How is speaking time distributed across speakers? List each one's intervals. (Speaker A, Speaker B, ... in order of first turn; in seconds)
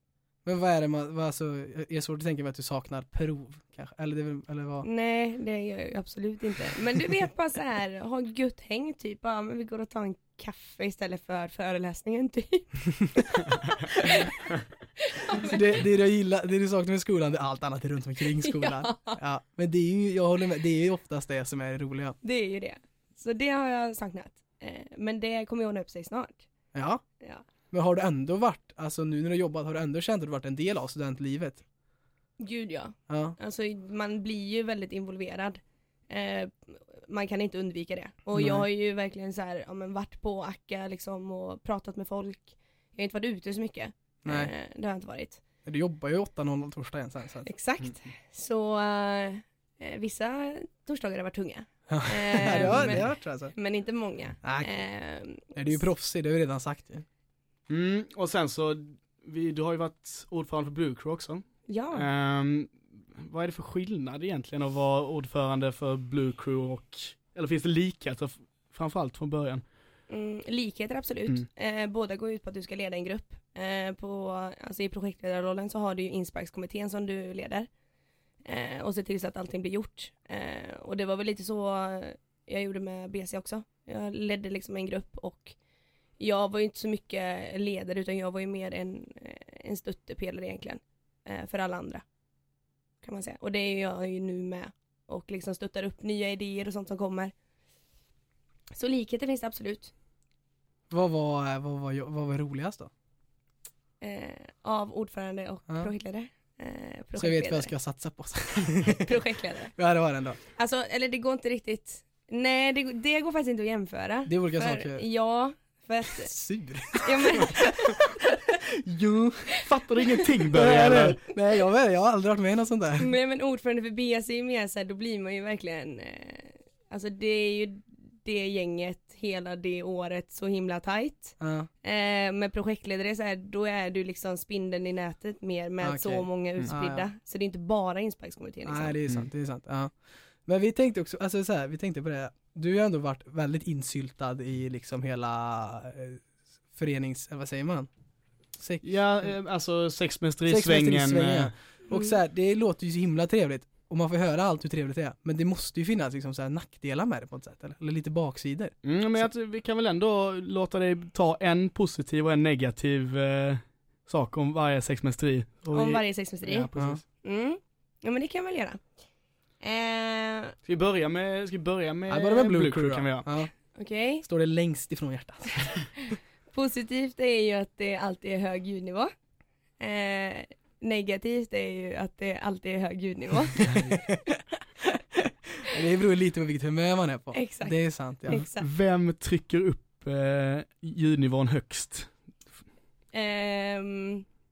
Speaker A: 0.5-4.9, 15.4-22.2, 26.7-27.0, 27.7-31.6, 33.1-33.4, 38.4-38.7, 44.2-44.5, 45.6-47.5, 51.9-53.5, 54.4-54.8, 55.5-57.0, 100.9-102.9, 107.2-109.1, 109.8-110.4, 114.3-115.1, 116.1-118.0, 118.7-119.5, 120.5-123.1, 131.4-131.7, 135.8-137.1, 138.7-139.9, 140.5-146.2, 146.7-147.9, 148.6-148.8, 150.5-158.7, 172.1-173.5, 174.2-175.7, 183.6-184.2, 185.6-188.4
Speaker B: 4.8-14.3, 15.0-15.7, 18.4-19.2, 22.2-26.5, 27.2-27.4, 32.4-45.4, 47.5-55.8, 61.7-62.1, 70.1-77.7, 78.5-85.6, 86.2-92.0, 93.0-97.3, 98.8-99.9, 104.0-107.7, 108.9-109.7, 110.5-116.3, 116.9-118.5, 123.0-139.0, 151.9-152.2, 165.7-166.7, 167.2-168.8, 169.6-170.6, 173.7-174.2, 175.6-179.1, 179.8-183.8, 187.3-188.7, 193.1-194.2
Speaker C: 52.5-53.0, 57.7-69.6, 119.5-121.2, 148.8-151.5, 158.8-167.0, 170.7-173.3, 183.6-184.0, 188.3-192.1